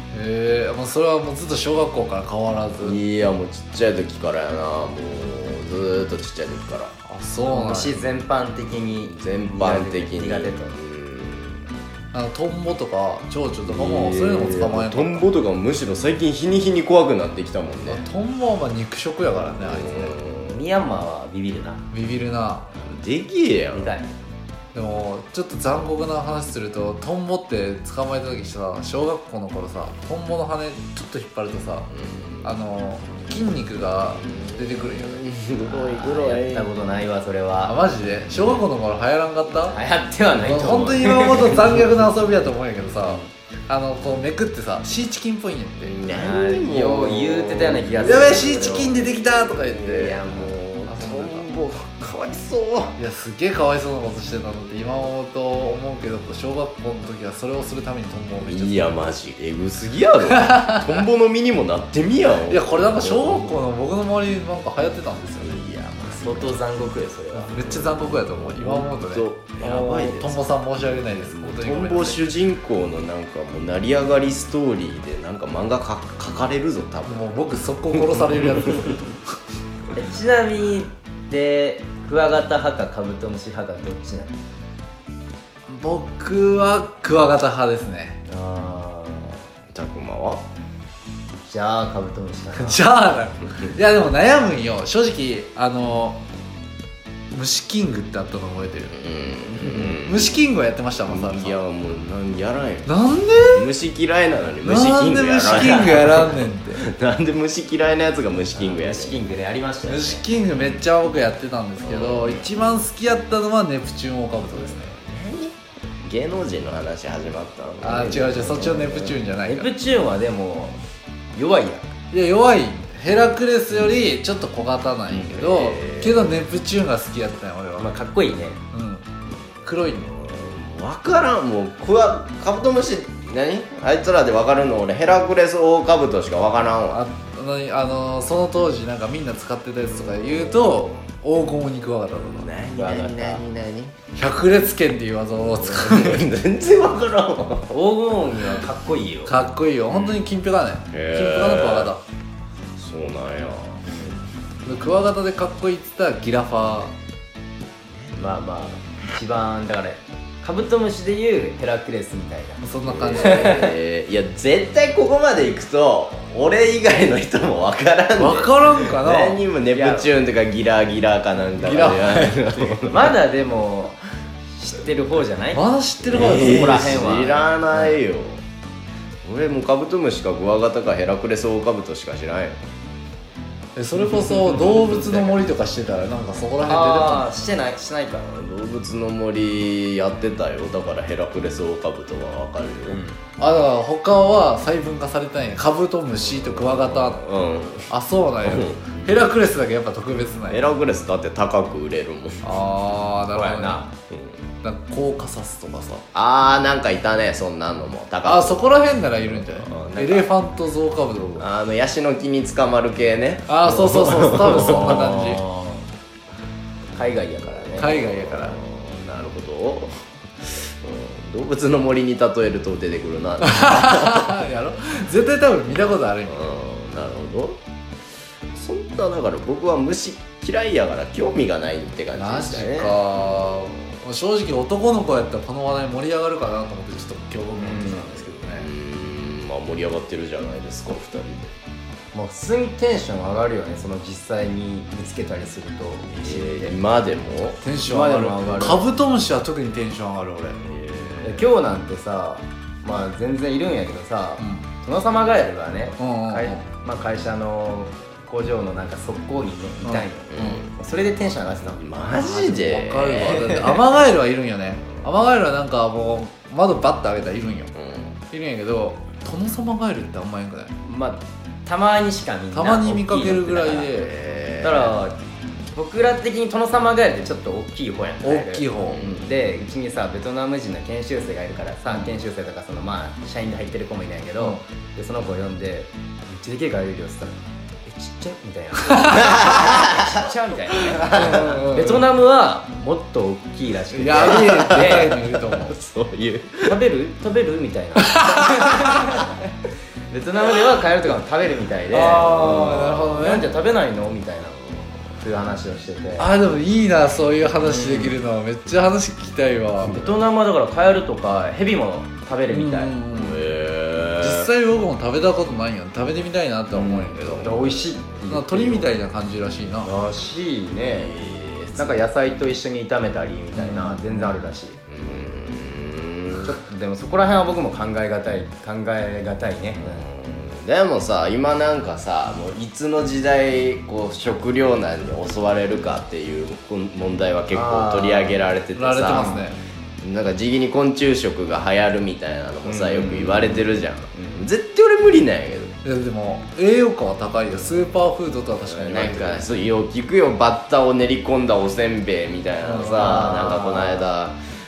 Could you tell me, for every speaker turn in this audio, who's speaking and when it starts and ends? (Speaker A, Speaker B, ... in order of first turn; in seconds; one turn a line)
Speaker A: 0.1-3.0
Speaker B: 2.8-6.9
Speaker A: 7.1-8.0
Speaker C: 7.5-10.8
Speaker B: 9.0-11.7
Speaker A: 12.1-15.3
Speaker B: 13.7-18.0
Speaker A: 17.9-20.1
Speaker B: 19.6-20.6
Speaker C: 20.5-21.8
Speaker A: 21.9-22.7
Speaker B: 22.7-23.9
Speaker C: 23.7-24.1
Speaker A: 24.7-31.9
Speaker B: 31.9-32.5
Speaker A: 32.4-35.2
Speaker B: 34.3-36.7
Speaker C: 35.7-37.8
Speaker A: 37.6-39.8
Speaker C: 39.7-42.1
Speaker A: 40.4-46.0
Speaker B: 45.8-53.0
Speaker C: 46.1-48.9
Speaker A: 48.0-51.5
Speaker A: 53.0-59.0
Speaker B: 58.5-63.6
Speaker A: 60.3-60.8
Speaker A: 62.5-65.6
Speaker B: 65.4-66.6
Speaker C: 66.1-67.8
Speaker B: 67.4-70.5
Speaker A: 67.5-72.2
Speaker B: 71.0-78.7
Speaker A: 77.1-79.2
Speaker C: 79.9-84.3
Speaker A: 85.7-88.2
Speaker C: 88.3-89.4
Speaker B: 89.7-90.4
Speaker C: 91.5-92.8
Speaker A: 92.6-96.2
Speaker A: 97.3-99.0
Speaker B: 98.9-100.3
Speaker A: 99.6-101.6
Speaker B: 101.0-109.2
Speaker A: 102.9-103.7
Speaker A: 104.6-106.9
Speaker C: 108.5-110.2
Speaker A: 109.9-114.9
Speaker B: 111.8-112.5
Speaker B: 114.7-119.2
Speaker A: 117.8-119.7
Speaker C: 119.4-120.8
Speaker C: 121.3-121.9
Speaker A: 122.1-127.9
Speaker B: 125.1-126.3
Speaker C: 127.8-128.6
Speaker A: 128.7-129.1
Speaker A: 129.6-130.1
Speaker B: 130.1-137.0
Speaker A: 136.9-142.5
Speaker B: 142.4-144.0
Speaker C: 142.7-143.4
Speaker A: 144.2-146.3
Speaker B: 145.6-147.7
Speaker C: 147.7-149.4
Speaker A: 149.3-152.0
Speaker B: 149.9-150.3
Speaker B: 150.9-151.9
Speaker B: 152.8-154.1
Speaker A: 154.7-156.9
Speaker C: 158.2-162.6
Speaker A: 162.6-163.6
Speaker B: 162.8-173.2
Speaker C: 163.2-163.7
Speaker A: 168.2-169.4
Speaker C: 169.7-170.1
Speaker A: 171.6-172.8
Speaker C: 172.9-174.0
Speaker C: 174.5-177.4
Speaker A: 175.5-177.1
Speaker B: 176.1-178.4
Speaker B: 179.2-182.6
Speaker A: 183.8-187.3
Speaker C: 184.4-185.3
Speaker C: 186.7-188.3
Speaker B: 188.2-193.0
Speaker C: 192.9-193.2
Speaker A: 193.4-197.3
Speaker B: 196.6-197.9
Speaker A: 197.9-200.7
Speaker B: 198.4-199.2
Speaker B: 200.5-202.4
Speaker A: 202.4-203.9
Speaker C: 203.3-203.9
Speaker B: 204.1-204.4
Speaker A: 204.6-206.1
Speaker B: 206.1-210.3
Speaker A: 208.2-211.5
Speaker B: 211.4-215.2
Speaker A: 213.5-215.4
Speaker C: 213.7-215.9
Speaker C: 216.9-218.0
Speaker B: 217.6-224.4
Speaker A: 217.8-218.6
Speaker A: 223.4-226.5
Speaker B: 226.3-227.6
Speaker B: 228.5-233.8
Speaker A: 232.2-238.7
Speaker C: 237.6-238.2
Speaker B: 238.5-241.5
Speaker C: 242.1-246.8
Speaker B: 246.1-247.6
Speaker A: 247.6-250.6
Speaker C: 247.8-248.8
Speaker B: 250.6-251.5
Speaker C: 251.2-261.9
Speaker A: 254.4-254.7
Speaker A: 256.0-256.6
Speaker A: 259.8-260.6
Speaker B: 260.3-260.7
Speaker B: 261.8-263.6
Speaker A: 262.1-267.7
Speaker C: 263.3-263.8
Speaker B: 267.8-268.2
Speaker A: 268.3-270.7
Speaker C: 270.8-273.9
Speaker A: 272.5-274.2
Speaker B: 274.0-275.0
Speaker C: 274.6-275.2
Speaker C: 275.7-295.2
Speaker A: 278.2-279.0
Speaker B: 278.9-279.3
Speaker A: 288.9-289.4
Speaker B: 289.1-290.2
Speaker B: 290.9-291.5
Speaker A: 291.1-292.1
Speaker A: 293.9-295.8
Speaker B: 294.2-296.8
Speaker C: 296.7-299.4
Speaker A: 298.0-298.9
Speaker C: 300.1-306.3
Speaker A: 301.9-303.5
Speaker B: 302.2-303.1
Speaker A: 306.2-310.1
Speaker C: 307.6-308.2
Speaker C: 309.8-313.0
Speaker B: 309.8-310.2
Speaker A: 312.5-313.5
Speaker B: 313.1-314.5
Speaker A: 314.2-317.5
Speaker C: 316.8-318.9
Speaker B: 316.8-317.9
Speaker A: 318.3-319.9
Speaker C: 319.8-321.2
Speaker B: 320.8-322.0
Speaker C: 321.8-324.8
Speaker A: 323.6-324.0
Speaker B: 324.9-326.5
Speaker C: 326.4-330.0
Speaker B: 329.8-339.4
Speaker C: 337.5-338.4
Speaker A: 338.7-339.6
Speaker B: 340.0-345.8
Speaker C: 342.6-344.4
Speaker A: 345.8-349.5
Speaker B: 348.7-354.4
Speaker A: 352.6-353.5
Speaker C: 353.3-354.0